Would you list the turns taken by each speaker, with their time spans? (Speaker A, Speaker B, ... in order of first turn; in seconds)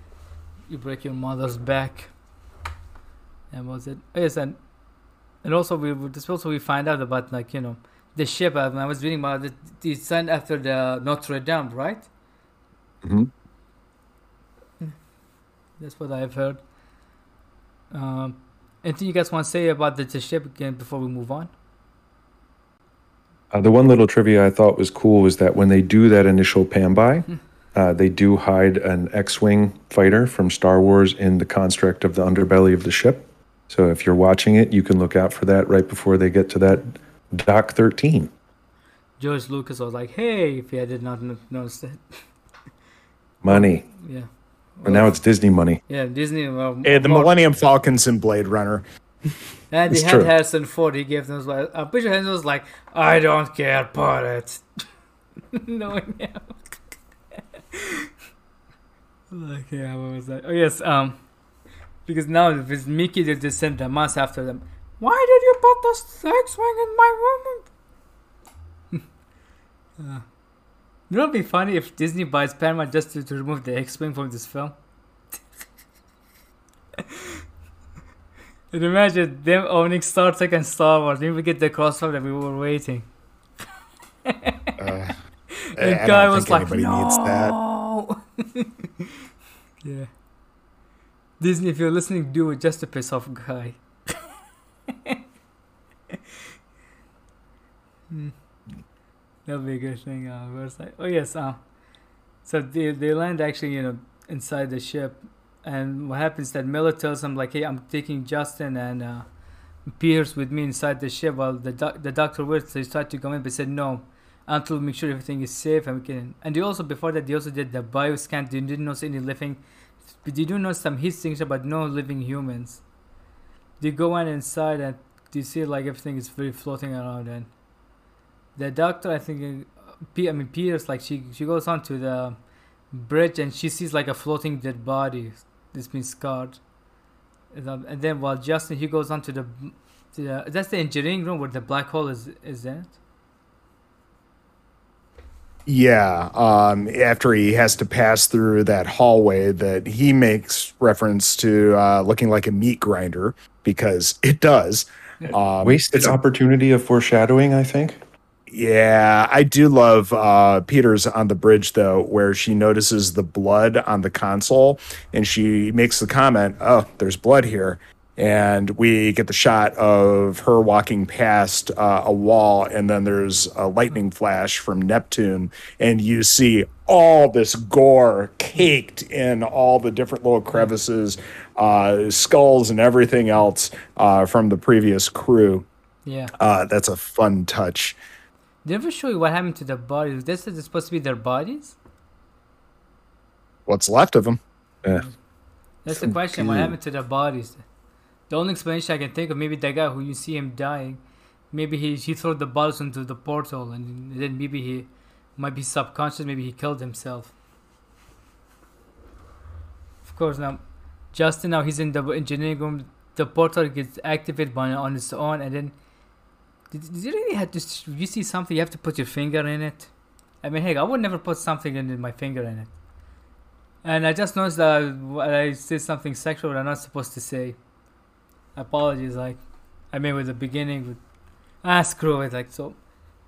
Speaker A: 0.7-2.1, 3.5-4.6, 5.4-12.1, 15.8-16.6, 17.9-21.5, 39.2-42.2, 43.5-45.1, 45.9-47.3, 49.7-54.6, 55.5-56.7, 57.7-58.1, 59.3-61.2, 62.0-67.7, 70.0-70.2, 71.1-74.7, 77.0-77.3, 78.7-83.1, 84.2-84.8, 85.7-89.0, 89.8-90.1, 91.4-94.2, 98.1-98.3, 99.5-101.6, 102.4-109.3, 109.9-119.6, 120.2-122.8, 123.8-127.5, 128.6-132.3, 132.9-136.6, 137.5-142.9, 186.1-186.3, 188.6-191.8, 195.8-197.6, 198.3-207.3, 210.0-215.7, 216.7-219.9, 220.4-222.7, 223.8-227.6, 228.5-229.4, 229.9-231.0, 231.6-232.8
Speaker B: 13.0-13.3, 23.5-38.3, 43.4-43.8, 44.8-45.8, 49.9-50.3, 155.6-158.0, 195.9-196.7
Speaker C: 46.8-48.8, 84.8-85.1, 85.8-87.6, 145.7-156.2, 158.5-185.7, 186.4-188.0, 193.7-194.4